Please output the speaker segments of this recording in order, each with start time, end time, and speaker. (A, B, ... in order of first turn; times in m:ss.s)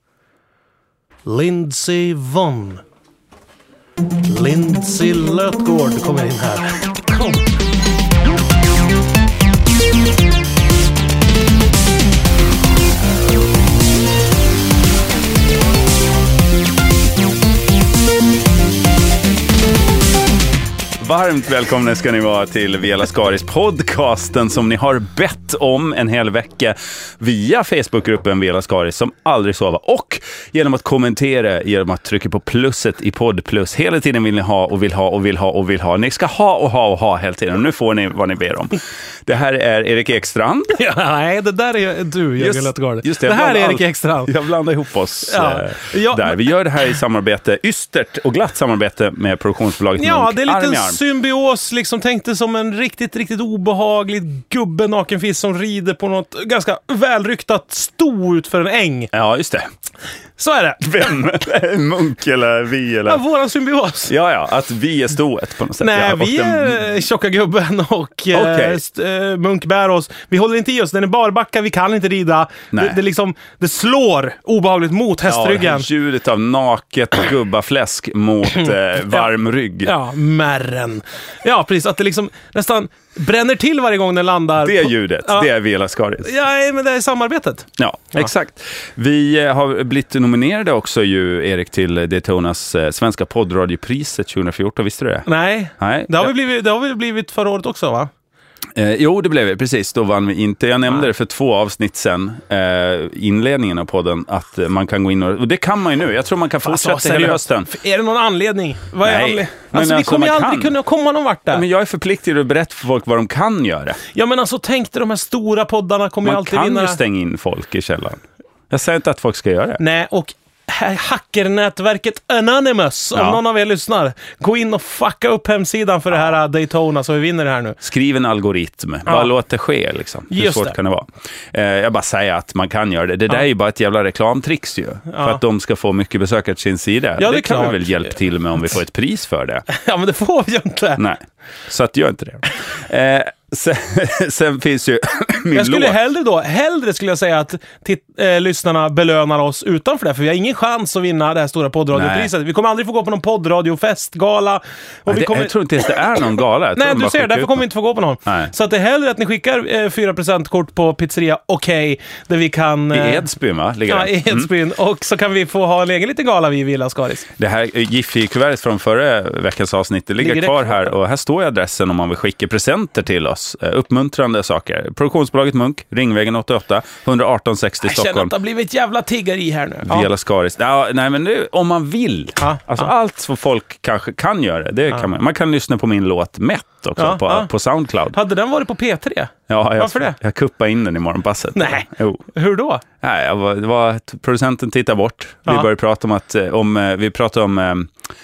0:01.3-0:02.8 A
0:04.3-0:07.5 A
0:21.0-0:40.8 B
0:40.7-0:44.3 A
0:42.4-0:51.0 B
0:45.3-0:46.4 A
0:50.0-0:59.1 A
0:59.1-0:59.7 B
1:00.4-1:01.2 A
1:00.8-1:03.2 B
1:03.1-1:04.1 A
1:04.1-1:06.8 B
1:05.8-1:15.9 A
1:08.3-1:08.8 B
1:12.7-1:13.0 B
1:15.3-1:19.9 B
1:19.8-1:25.5 A
1:24.6-1:26.3 B
1:26.2-1:27.7 A
1:27.8-1:35.3 B
1:35.3-1:38.1 A
1:35.8-1:36.3 B
1:38.8-1:47.7 B
1:46.6-1:51.6 A
1:49.0-1:50.8 B
1:51.5-1:54.0 B
1:54.1-1:57.0 A
1:56.2-1:59.8 B
1:59.8-2:07.8 A
2:03.2-2:03.4 B
2:07.8-2:19.7 B
2:10.3-2:10.7 A
2:15.1-2:15.4 A
2:17.2-2:18.1 A
2:19.7-2:21.0 A
2:21.0-2:26.0 B
2:25.5-2:36.2 A
2:31.9-2:32.3 B
2:35.1-2:37.6 B
2:36.8-2:43.3 A
2:42.9-2:44.5 B
2:43.9-2:47.3 A
2:47.4-2:58.3 B
2:50.2-2:50.8 A
2:57.8-3:00.1 A
2:59.8-3:08.2 B
3:02.4-3:02.9 A
3:07.0-3:07.5 A
3:08.1-3:10.2 A
3:09.5-3:12.2 B
3:11.6-3:12.8 A
3:13.0-3:17.9 B